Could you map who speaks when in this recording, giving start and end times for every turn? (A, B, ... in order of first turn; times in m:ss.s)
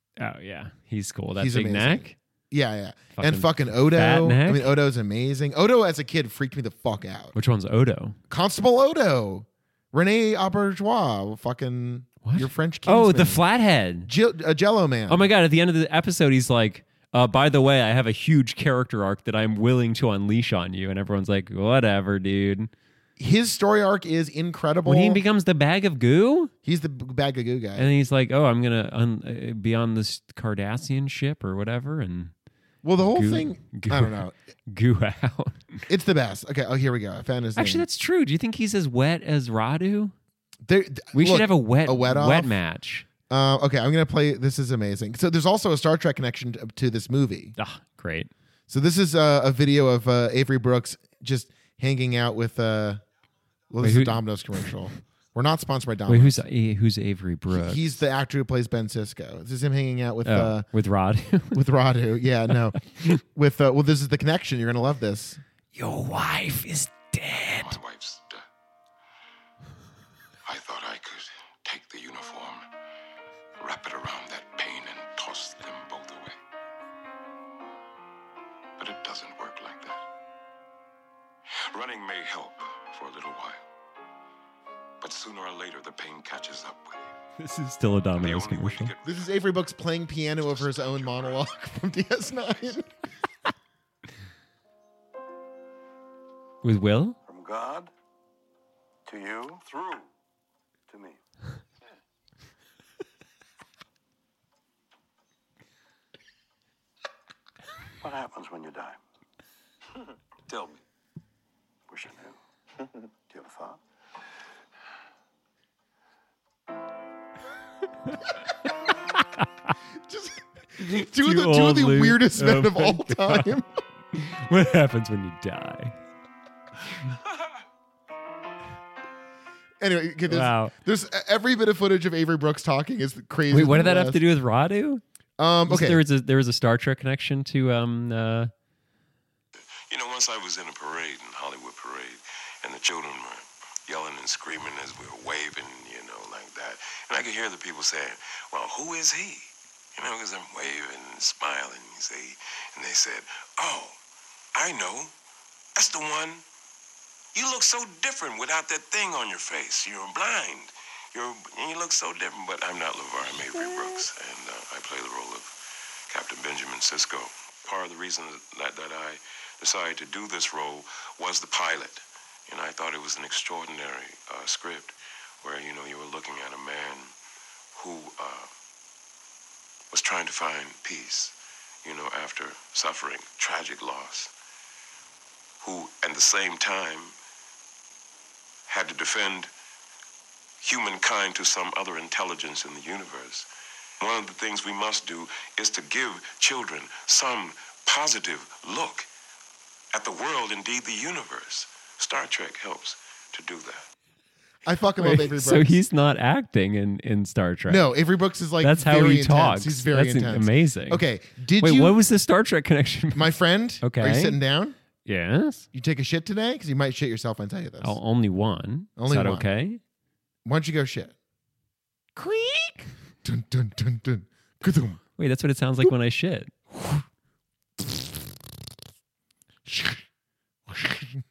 0:00.2-0:02.2 A
0:01.4-0:07.3 B
0:03.1-0:04.7 A
0:07.3-0:08.2 A
0:08.3-0:13.4 B
0:12.2-0:14.1 A
0:14.0-0:15.2 B
0:15.1-0:22.7 A
0:23.2-0:25.2 B
0:24.8-0:26.5 A
0:26.6-0:27.9 B
0:27.8-0:32.3 A
0:32.8-0:34.3 B
0:33.0-0:35.8 A
0:35.9-0:37.8 B
0:37.6-0:40.1 A
0:40.6-0:42.5 B
0:41.1-0:43.1 A
0:43.3-0:47.5 B
0:47.6-0:48.3 A
0:48.7-0:53.0 B
0:53.7-0:56.4 B
0:53.8-0:54.7 A
0:56.1-0:57.9 A
0:57.5-1:00.6 B
1:00.2-1:01.6 A
1:01.5-1:05.4 B
1:05.7-1:07.8 A
1:07.5-1:08.4 C
1:10.4-1:12.6 C
1:13.6-1:16.4 C
1:18.8-1:20.0 C
1:21.5-1:23.6 C
1:25.0-1:27.1 C
1:27.4-1:28.9 A
1:28.2-1:29.3 C
1:29.0-1:32.9 B
1:36.6-1:37.2 A
1:37.2-1:37.9 D
1:39.0-1:40.1 D
1:40.9-1:41.2 D
1:48.0-1:49.0 D
1:50.5-1:50.8 D
1:51.9-1:52.4 D
1:53.3-1:53.8 D
1:59.1-1:59.7 A
2:00.0-2:03.7 B
2:00.8-2:03.5 A
2:04.1-2:06.0 A
2:09.8-2:14.2 B
2:10.3-2:10.7 A
2:13.5-2:15.0 A
2:15.4-2:16.0 B
2:15.6-2:18.5 A
2:19.6-2:34.0 C
2:34.5-2:35.1 C
2:35.8-2:36.4 C
2:37.3-2:57.1 C
2:57.7-2:58.5 C
2:59.9-3:04.3 C
3:05.6-3:07.1 C
3:08.7-3:09.5 C
3:10.6-3:13.5 C
3:14.0-3:19.1 C
3:19.9-3:23.8 C
3:24.6-3:25.8 B
3:25.0-3:27.9 A
3:27.7-3:32.0 B
3:28.6-3:31.0 A
3:31.6-3:33.3 A
3:33.1-3:34.8 B
3:33.8-3:34.4 A
3:35.0-3:35.7 A
3:35.7-3:38.0 B
3:37.8-3:39.8 A
3:39.0-3:39.5 B
3:40.4-3:41.1 B
3:42.2-3:42.9 A
3:43.2-3:45.0 B
3:45.2-3:46.5 A
3:49.7-3:50.0 B
3:50.7-3:51.2 B